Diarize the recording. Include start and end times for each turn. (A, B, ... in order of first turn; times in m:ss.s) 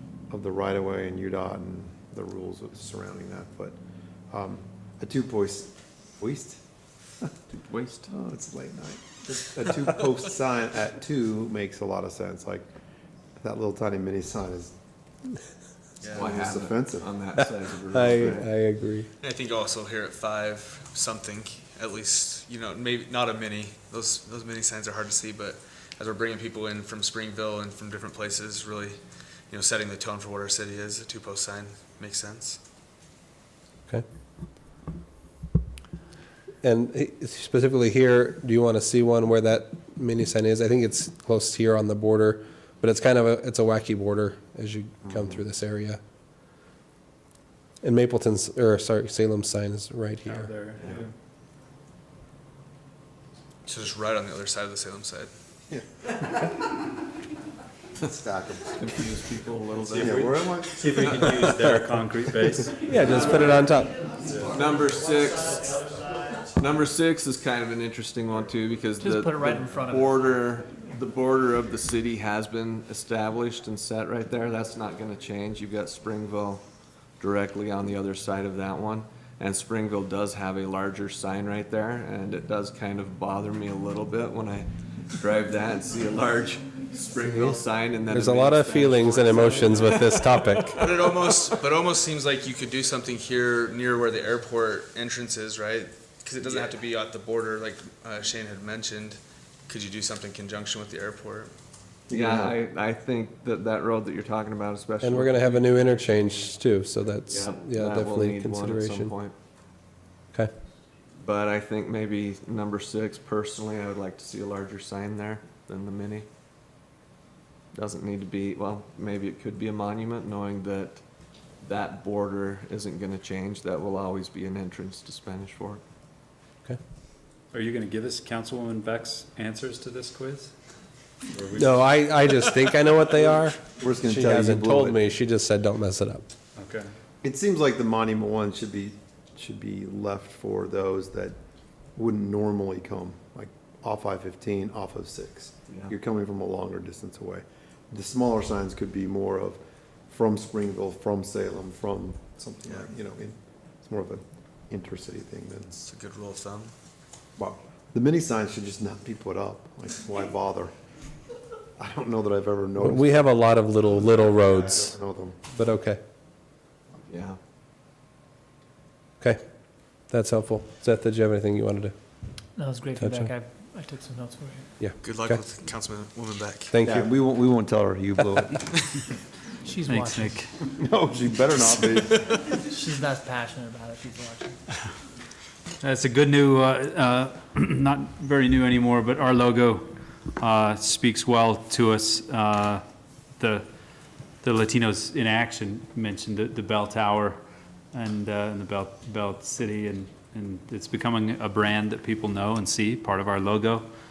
0:00.3-0:03.8 A
0:04.3-0:06.6 A
0:07.5-0:08.1 B
0:08.1-0:12.7 A
0:13.4-0:14.7 A
0:16.0-0:16.3 C
0:16.1-0:18.5 B
0:16.1-0:17.1 A
0:17.9-0:19.1 D
0:19.2-0:32.6 C
0:36.6-0:46.0 D
0:47.8-0:50.6 D
0:50.3-0:51.0 E
0:53.7-0:55.3 C
0:55.7-0:56.5 A
0:58.0-0:58.8 A
0:58.8-1:00.3 B
0:59.8-1:02.9 E
1:00.0-1:01.6 A
1:02.8-1:04.1 D
1:04.2-1:04.6 E
1:04.4-1:05.9 B
1:06.5-1:16.6 B
1:09.0-1:10.3 F
1:17.2-1:31.4 B
1:27.2-1:30.8 D
1:30.8-1:41.5 C
1:36.4-1:36.7 B
1:42.1-1:46.3 B
1:42.2-1:42.5 A
1:45.0-1:49.1 D
1:47.3-1:49.4 B
1:51.2-1:56.3 B
1:57.7-2:01.0 B
2:01.6-2:05.8 B
2:07.5-2:10.5 E
2:11.3-2:11.8 E
2:11.6-2:16.2 D
2:13.8-2:15.0 A
2:16.6-2:16.9 E
2:17.2-2:21.4 A
2:22.0-2:35.7 A
2:35.7-2:36.7 C
2:37.4-2:40.7 A
2:41.8-2:45.4 A
2:42.8-2:45.0 D
2:45.5-2:46.0 D
2:47.1-2:47.4 B
2:50.1-2:51.9 D
2:52.6-2:54.9 F
2:53.0-2:53.4 D
2:54.8-2:55.4 D
2:55.0-2:56.7 C
2:56.7-2:57.1 D
2:56.8-2:58.7 A
2:59.6-3:00.5 F
2:59.8-3:00.5 E
3:00.8-3:02.2 A
3:02.5-3:04.6 F
3:05.8-3:12.8 E
3:13.4-3:13.6 E
3:14.4-3:17.4 E
3:17.9-3:23.9 E